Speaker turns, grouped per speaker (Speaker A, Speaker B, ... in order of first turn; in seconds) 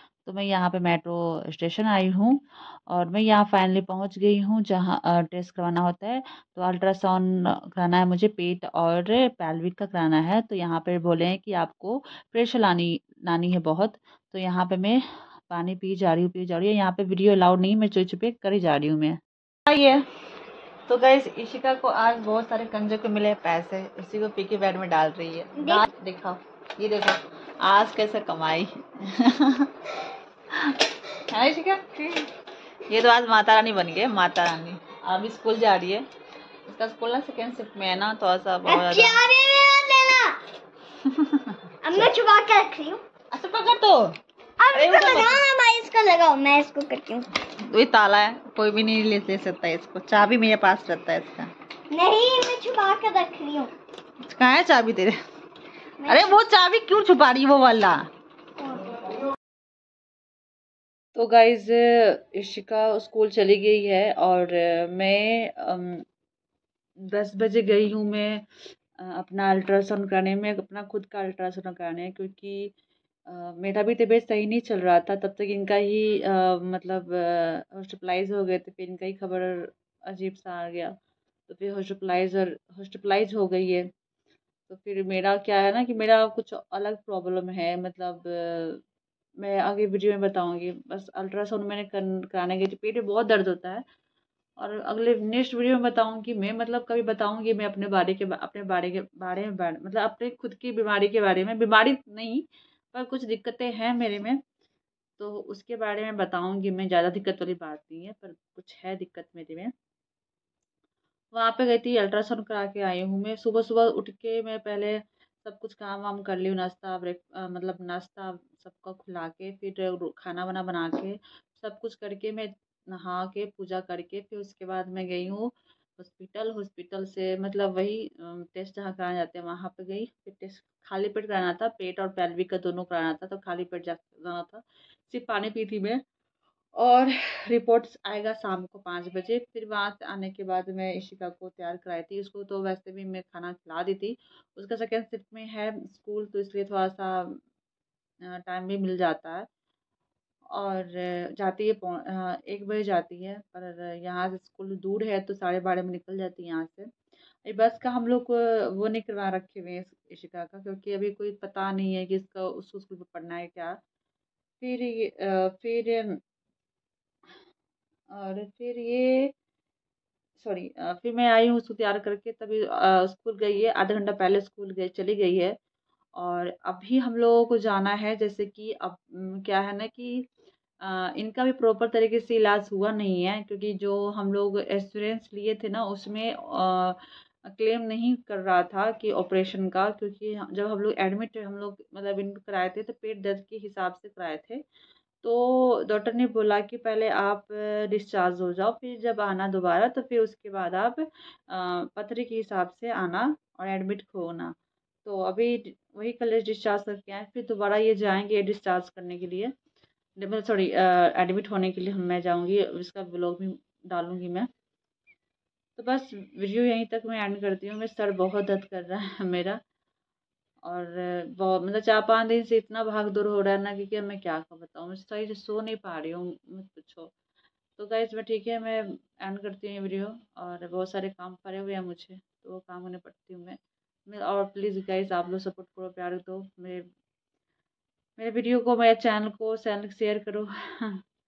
Speaker A: 0.2-20.1, 20.9-29.7, 31.3-32.0, 32.9-36.0, 36.7-39.2, 41.0-42.1, 43.3-44.1, 44.7-45.4, 47.5-51.5, 54.2-55.2, 56.1-58.0, 61.1-66.0, 67.0-68.4, 69.0-72.7, 73.3-81.0, 81.5-83.9, 84.7-88.8, 89.4-93.8, 94.6-104.4, 105.2-109.7, 111.3-136.0, 136.8-147.4, 148.2-149.5, 150.5-156.9, 157.4-163.8, 164.6-166.2, 168.1-169.3, 170.4-175.6, 176.2-180.3, 180.8-194.6, 195.2-204.5, 205.0-209.5, 210.2-214.5, 215.8-219.6, 220.6-227.1, 227.8-236.9, 238.2-241.0
Speaker B: 25.6-25.9, 38.6-40.4, 41.8-43.0, 44.6-47.3, 51.9-53.7, 56.0-56.4, 58.6-58.9